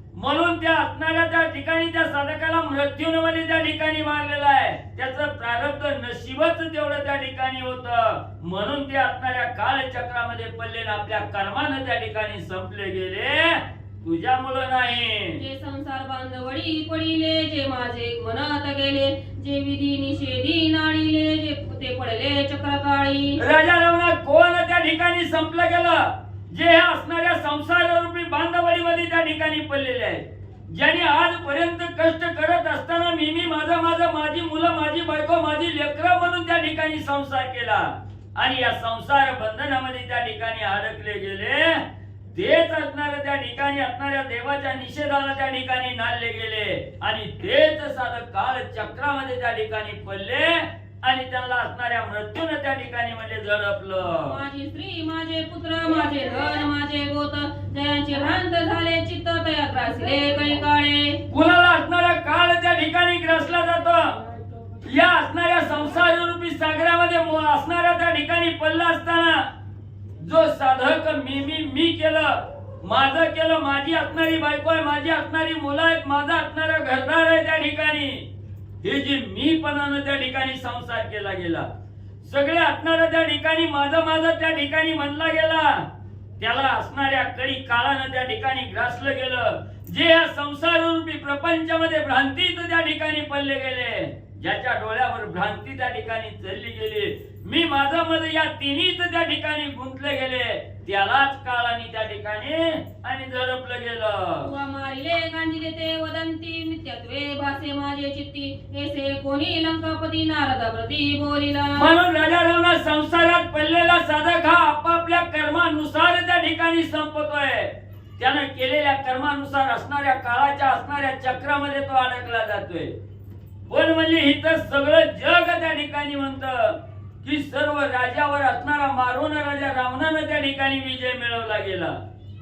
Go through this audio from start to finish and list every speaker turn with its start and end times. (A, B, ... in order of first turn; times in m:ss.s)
0:00.1-0:15.4 A
0:15.4-0:23.4 B
0:23.4-0:54.4 A
0:54.2-1:01.2 B
1:01.3-1:04.2 A
1:04.8-1:09.5 A
1:10.2-1:18.2 A
1:18.8-1:21.7 A
1:22.2-1:25.8 A
1:26.4-1:44.5 A
1:44.4-1:51.9 B
1:51.8-2:02.9 A
2:03.7-2:12.0 A